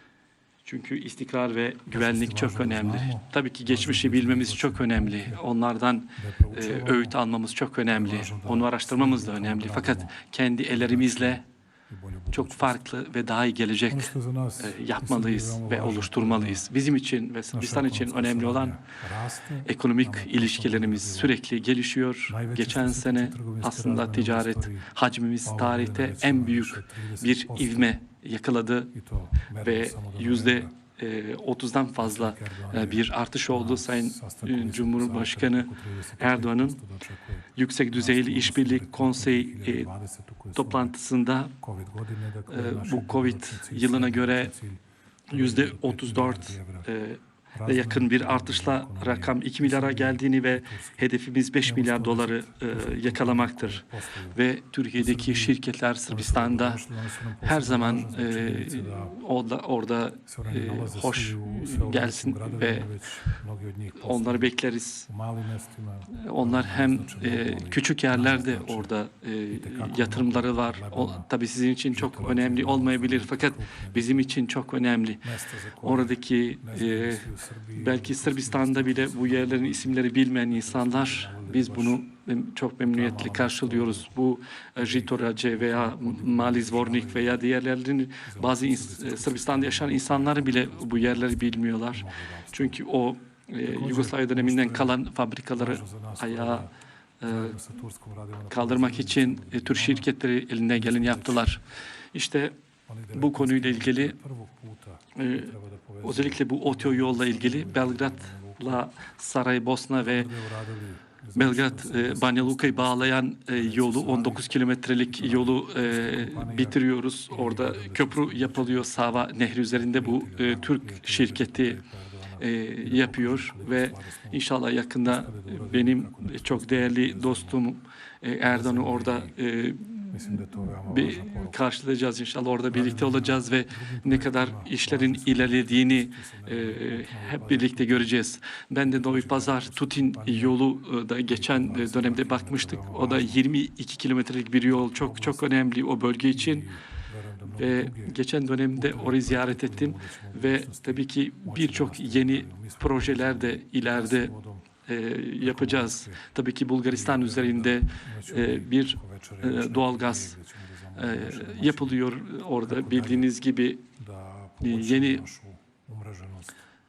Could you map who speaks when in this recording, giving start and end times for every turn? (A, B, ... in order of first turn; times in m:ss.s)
0:00.6-0:11.4 A
0:01.9-0:05.4 B
0:06.2-0:07.2 B
0:07.9-0:10.2 B
0:10.7-0:12.8 B
0:12.3-0:18.8 A
0:13.9-0:16.7 B
0:17.5-0:21.3 B
0:19.7-0:28.9 A
0:22.3-0:24.9 B
0:25.4-0:27.9 B
0:28.9-0:30.7 B
0:29.6-0:36.8 A
0:32.0-0:40.9 B
0:37.6-0:39.9 A
0:40.6-0:41.5 A
0:41.6-0:46.9 B
0:42.5-0:44.5 A
0:45.3-0:56.8 A
0:47.5-0:51.0 B
0:51.6-0:54.4 B
0:55.0-0:59.2 B
0:57.4-1:03.3 A
1:00.3-1:04.5 B
1:04.0-1:05.1 A
1:05.1-1:08.9 B
1:06.1-1:15.2 A
1:09.5-1:11.3 B
1:11.9-1:14.2 B
1:15.2-1:22.0 B
1:15.8-1:36.7 A
1:22.8-1:24.1 B
1:24.8-1:27.4 B
1:28.2-1:32.8 B
1:33.6-1:35.0 B
1:35.6-1:36.7 B
1:37.2-1:37.5 A
1:37.2-1:40.1 B
1:38.5-1:41.6 A
1:40.8-1:41.5 B
1:42.1-1:42.6 A
1:42.9-1:48.9 B
1:43.1-1:44.2 A
1:45.2-1:50.3 A
1:50.0-1:54.5 B
1:51.4-2:01.8 A
1:55.1-2:04.4 B
2:02.4-2:26.7 A
2:05.0-2:07.6 B
2:08.5-2:09.4 B
2:10.1-2:11.6 B
2:12.7-2:18.1 B
2:18.8-2:20.6 B
2:21.3-2:23.4 B
2:24.7-2:25.4 B
2:26.3-2:28.2 B
2:27.6-2:34.3 A
2:28.8-2:34.7 B
2:34.9-2:40.4 A
2:35.4-2:36.3 B
2:36.8-2:42.0 B
2:41.0-2:43.9 A
2:42.7-2:43.3 B
2:44.0-2:46.6 B
2:44.6-2:45.2 A